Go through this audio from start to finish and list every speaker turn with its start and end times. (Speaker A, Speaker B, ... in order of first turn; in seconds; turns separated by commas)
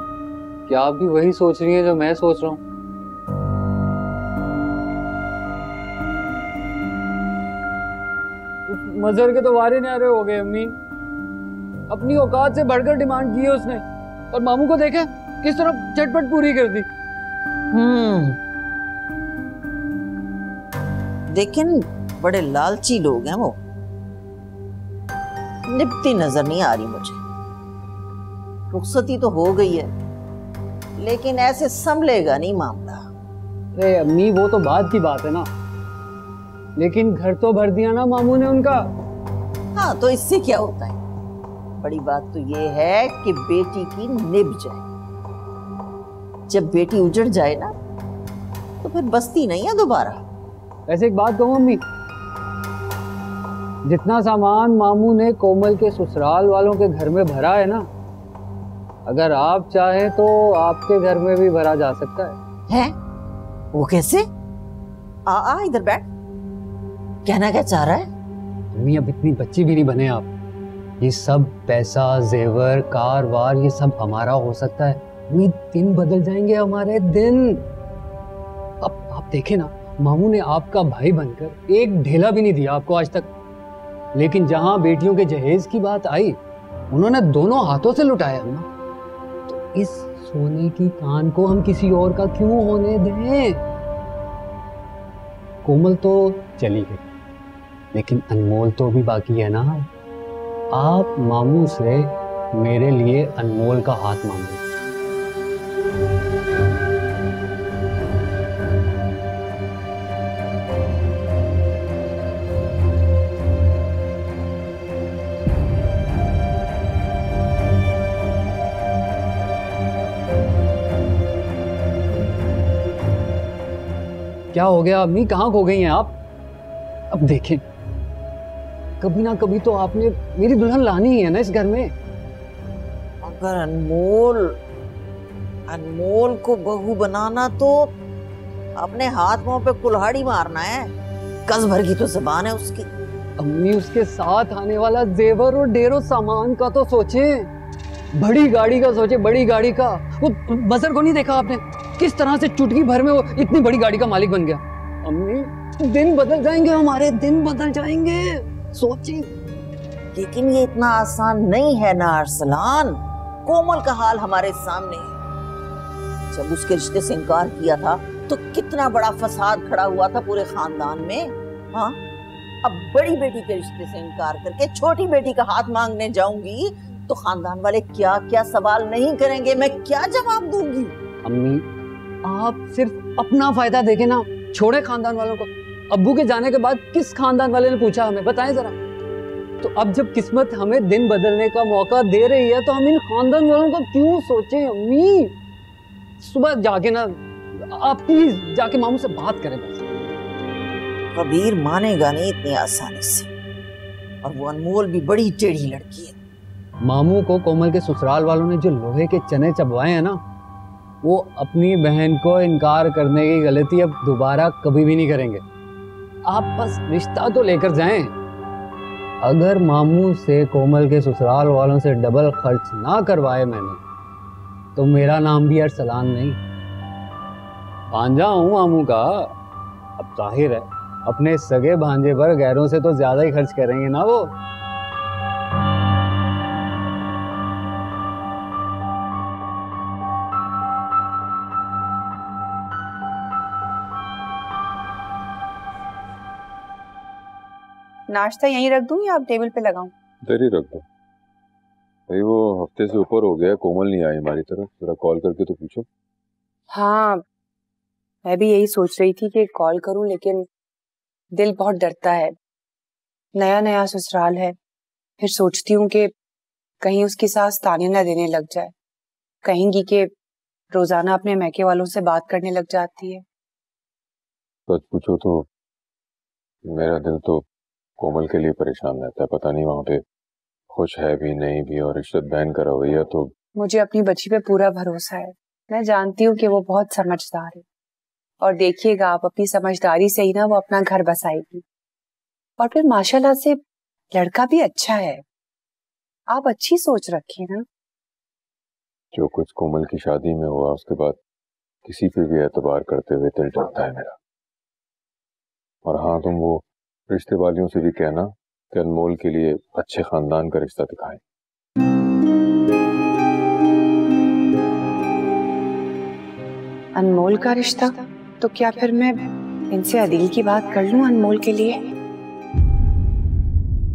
Speaker A: 0.7-2.6, Speaker A: 8.7-10.7, Speaker A: 11.9-16.9, Speaker B: 17.7-18.4, Speaker B: 21.3-23.6, Speaker B: 25.7-27.2, Speaker B: 28.7-29.9, Speaker B: 31.0-33.0, Speaker A: 33.8-35.5, Speaker A: 36.8-38.8, Speaker B: 39.8-41.0, Speaker B: 41.8-44.8, Speaker B: 46.5-47.7, Speaker B: 48.8-50.2, Speaker A: 50.9-51.8, Speaker A: 53.9-57.9, Speaker A: 59.1-62.4, Speaker B: 63.7-64.2, Speaker B: 65.3-66.1, Speaker B: 67.2-68.1, Speaker A: 68.8-70.3, Speaker A: 71.0-77.6, Speaker A: 78.8-83.3, Speaker A: 84.2-86.4, Speaker A: 86.9-88.7, Speaker A: 89.5-93.6, Speaker A: 95.6-97.1, Speaker A: 97.9-99.9, Speaker A: 100.7-104.6, Speaker A: 124.5-126.2, Speaker A: 127.1-127.6, Speaker A: 129.0-131.9, Speaker B: 133.2-134.6, Speaker B: 135.7-137.9, Speaker B: 138.8-140.9, Speaker B: 141.5-142.9, Speaker A: 143.4-147.5, Speaker A: 148.2-159.3, Speaker B: 160.1-165.2, Speaker B: 166.3-172.0, Speaker B: 172.6-180.9, Speaker A: 181.2-181.6, Speaker A: 182.2-188.8, Speaker A: 189.6-195.3, Speaker A: 196.2-197.2, Speaker A: 197.7-199.9, Speaker B: 201.1-203.3, Speaker B: 204.2-206.2, Speaker A: 206.8-210.2, Speaker A: 211.0-215.4, Speaker A: 216.3-218.1, Speaker A: 219.2-223.8, Speaker A: 224.8-226.4, Speaker A: 227.9-229.3, Speaker A: 230.0-234.3, Speaker C: 248.1-249.9, Speaker D: 250.2-250.8, Speaker D: 252.1-255.9, Speaker C: 256.7-257.2, Speaker C: 258.2-260.5, Speaker C: 261.3-262.3, Speaker C: 263.4-264.6, Speaker C: 265.2-266.1, Speaker C: 266.8-268.7, Speaker C: 269.4-270.1, Speaker C: 270.7-273.2, Speaker D: 274.7-275.5, Speaker D: 276.7-277.4, Speaker D: 278.0-280.0, Speaker D: 280.7-283.3, Speaker C: 283.6-287.6, Speaker C: 288.4-291.6, Speaker C: 292.6-293.6, Speaker C: 294.1-295.2, Speaker C: 296.3-297.6, Speaker D: 299.1-301.2, Speaker D: 301.9-304.2, Speaker D: 305.9-311.2, Speaker C: 316.9-321.8